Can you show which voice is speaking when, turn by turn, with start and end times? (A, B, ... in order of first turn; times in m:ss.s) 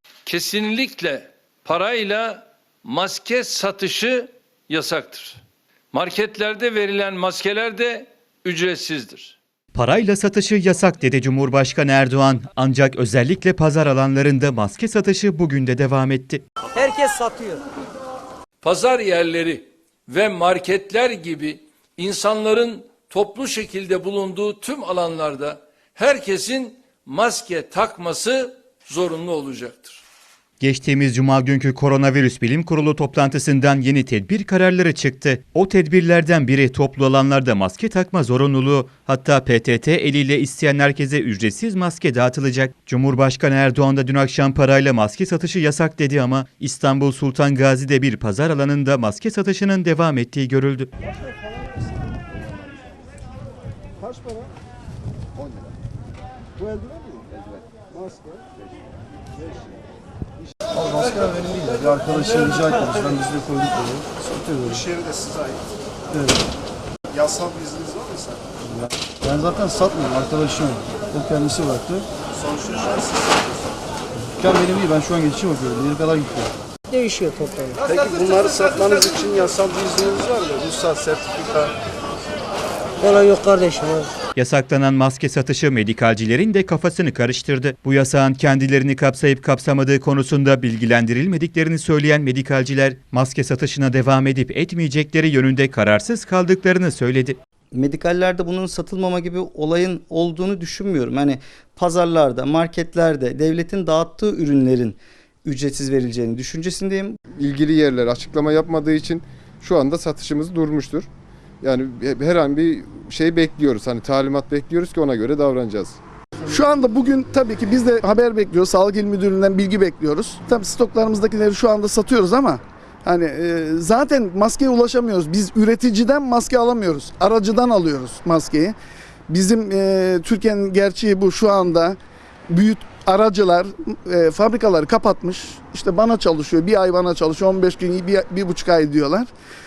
0:00.3-0:05.4 A
0:05.9-0:09.4 A
0:09.7-0:16.4 B
0:16.8-0:17.6 C
0:18.6-0:30.0 A
0:30.6-0:50.9 B
1:00.7-1:04.8 D
1:04.9-1:05.6 E
1:06.1-1:06.4 D
1:07.1-1:08.3 E
1:08.7-1:12.1 D
1:12.4-1:13.4 E
1:14.4-1:16.5 D
1:16.9-1:17.8 C
1:17.9-1:21.7 E
1:23.0-1:24.1 C
1:24.4-1:37.4 B
1:37.7-1:47.2 F
1:47.4-1:51.1 G
1:51.6-1:55.9 G
1:56.5-2:08.8 H
2:09.3-2:12.0 H
2:12.5-2:19.3 H